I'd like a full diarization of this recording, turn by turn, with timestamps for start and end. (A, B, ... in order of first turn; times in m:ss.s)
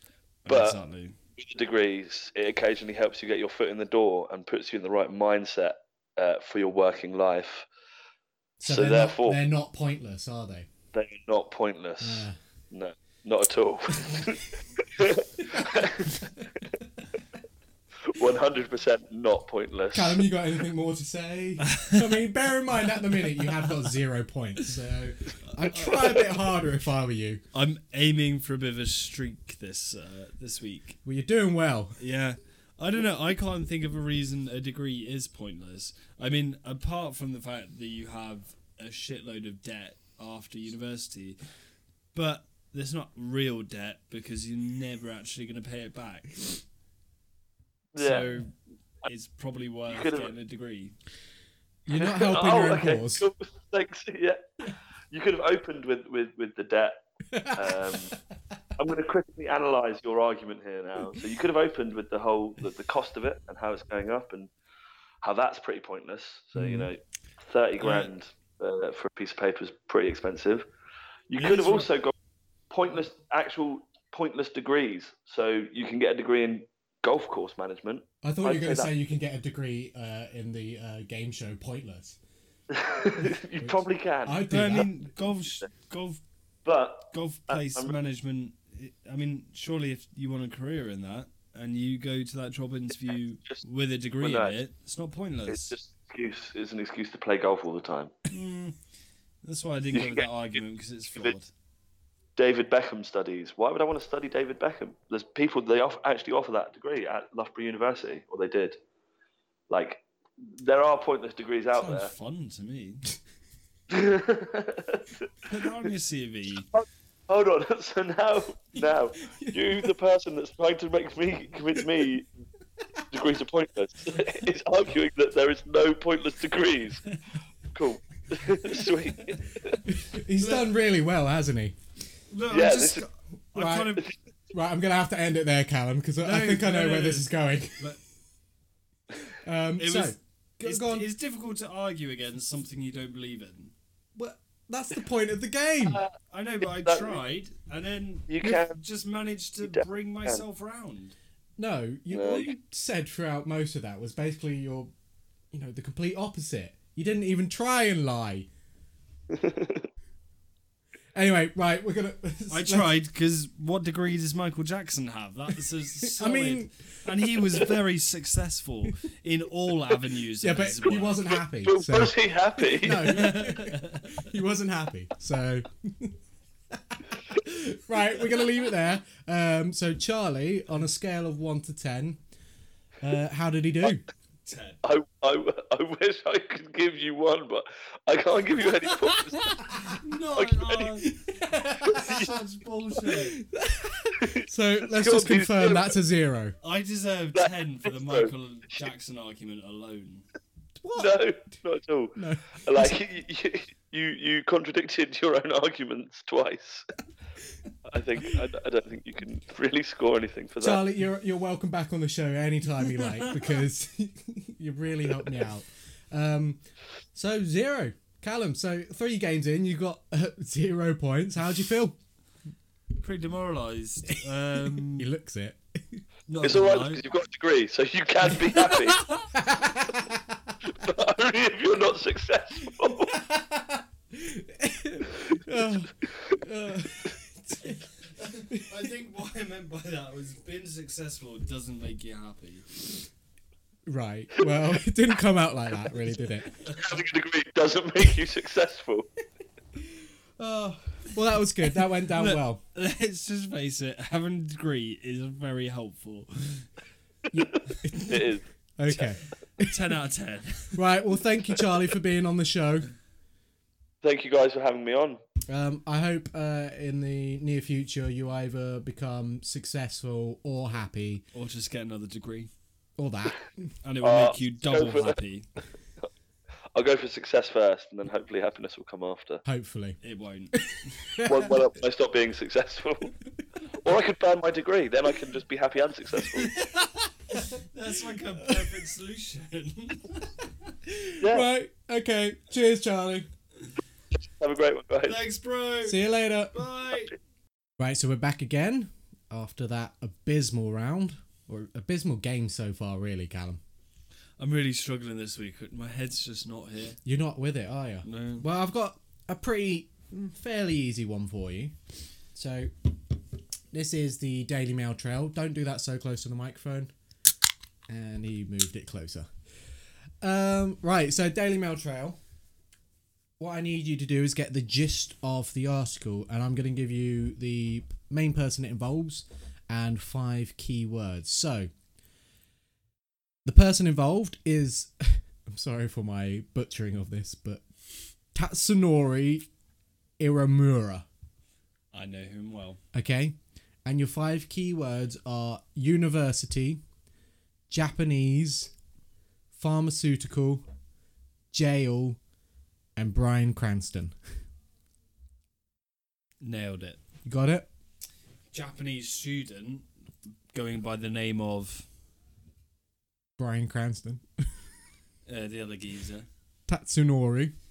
0:00.5-0:01.2 A
0:00.5-0:00.8 B
0:01.4-0:07.7 B
0:08.6-0:10.7 C
0:08.6-0:09.4 B
0:10.9-0:16.2 B
0:12.0-0:12.4 C
0:14.0-0:14.4 C
0:15.4-0:16.5 C
0:18.0-0:20.3 B
0:19.9-0:27.4 C
0:21.7-0:22.3 A
0:23.2-0:23.7 A
0:25.6-0:26.2 A
0:27.5-0:31.0 A
0:31.0-0:32.0 C
0:32.0-0:41.4 A
0:42.1-0:46.6 A
0:47.9-0:48.4 B
0:48.0-0:51.0 A
0:49.9-0:50.3 B
0:51.9-0:53.3 C
0:51.9-0:58.1 B
0:57.3-0:57.8 C
0:58.8-1:04.5 B
1:05.2-1:10.7 B
1:06.6-1:06.9 C
1:07.8-1:08.1 A
1:11.3-1:12.1 B
1:11.4-1:11.9 A
1:12.7-1:18.9 B
1:18.2-1:22.2 C
1:22.7-1:24.5 B
1:23.2-1:24.9 C
1:24.5-1:26.2 A
1:26.6-1:27.9 B
1:27.1-1:35.8 A
1:34.2-1:34.6 B
1:35.5-1:38.1 B
1:38.3-1:38.8 A
1:39.4-1:41.5 A
1:39.9-1:40.3 B
1:42.4-1:48.8 B
1:49.7-1:52.1 B
1:51.7-1:53.0 A
1:53.9-1:55.3 B
1:55.5-1:56.7 A
1:56.7-2:02.3 B
1:59.2-1:59.9 C
2:03.1-2:07.1 B
2:07.7-2:09.8 B
2:09.8-2:11.8 C
2:10.4-2:10.7 A
2:12.3-2:14.1 A
2:12.5-2:13.0 B
2:13.6-2:14.0 C
2:14.5-2:17.9 C
2:16.2-2:18.0 A
2:19.3-2:21.1 C
2:19.8-2:23.7 A
2:24.2-2:26.0 C
2:25.8-2:26.1 B
2:26.3-2:31.1 A
2:26.7-2:27.2 B
2:28.3-2:28.8 B
2:29.6-2:30.4 B
2:31.6-2:34.9 C
2:32.1-2:32.5 B
2:35.5-2:38.5 C
2:39.3-2:39.9 B
2:41.1-2:43.0 C
2:42.5-2:51.3 A
2:46.0-2:46.8 C
2:50.4-2:56.1 C
2:51.4-2:53.2 B
2:52.9-2:54.3 A
2:56.8-3:02.2 C
3:03.0-3:04.0 C
3:04.4-3:04.8 A
3:04.8-3:09.7 B
3:09.1-3:11.1 A
3:10.4-3:11.0 B
3:11.0-3:12.3 C
3:11.9-3:12.3 B
3:11.9-3:13.4 A
3:13.1-3:16.6 C
3:14.2-3:16.0 B
3:16.6-3:20.3 A
3:17.4-3:18.3 B
3:20.8-3:21.2 C
3:21.0-3:26.9 B
3:22.2-3:22.9 C
3:27.9-3:30.8 B
3:30.6-3:36.6 C
3:33.0-3:33.3 A
3:37.1-3:42.0 C
3:43.0-3:45.1 A
3:44.8-3:46.0 C
3:46.3-3:47.0 A
3:46.4-3:49.1 B
3:49.3-3:50.6 C
3:50.7-3:53.2 B
3:52.8-3:57.8 C
3:57.6-4:02.8 A
4:03.9-4:06.5 C
4:06.5-4:07.0 A
4:06.7-4:09.1 B
4:10.4-4:12.6 C
4:11.9-4:16.7 A
4:17.3-4:19.7 C
4:17.6-4:19.1 B
4:19.6-4:20.9 A
4:20.8-4:22.9 C
4:24.0-4:25.2 B
4:25.5-4:31.3 C
4:31.3-4:32.5 A
4:33.0-4:33.7 C
4:33.8-4:35.5 A
4:34.0-4:35.2 B
4:36.7-4:39.4 B
4:39.4-4:40.0 C
4:40.0-4:41.1 A
4:40.5-4:41.5 C
4:41.2-4:43.1 B
4:43.8-4:46.6 B
4:46.3-4:50.5 A
4:48.4-4:48.8 C
4:50.9-4:53.3 C
4:51.2-4:51.5 B
4:54.2-4:55.2 B
4:55.0-4:57.1 A
4:55.8-4:56.6 C
4:57.8-5:03.6 C
5:04.4-5:07.0 A
5:07.0-5:11.8 C
5:08.0-5:08.5 A
5:12.3-5:12.7 C
5:13.7-5:16.9 C
5:17.9-5:19.3 C
5:20.2-5:22.2 C
5:23.4-5:31.7 C
5:33.5-5:37.6 C
5:38.3-5:39.5 C
5:40.2-5:41.1 C
5:41.9-5:42.8 A
5:42.9-5:46.8 C
5:47.7-5:48.7 C
5:49.6-5:50.6 C
5:51.5-5:52.2 C
5:53.0-5:54.1 C
5:56.4-5:57.0 A
5:57.2-5:57.7 C
5:58.5-5:59.9 A
6:00.5-6:01.9 A
6:03.4-6:04.2 C
6:05.3-6:06.3 A
6:06.7-6:07.5 C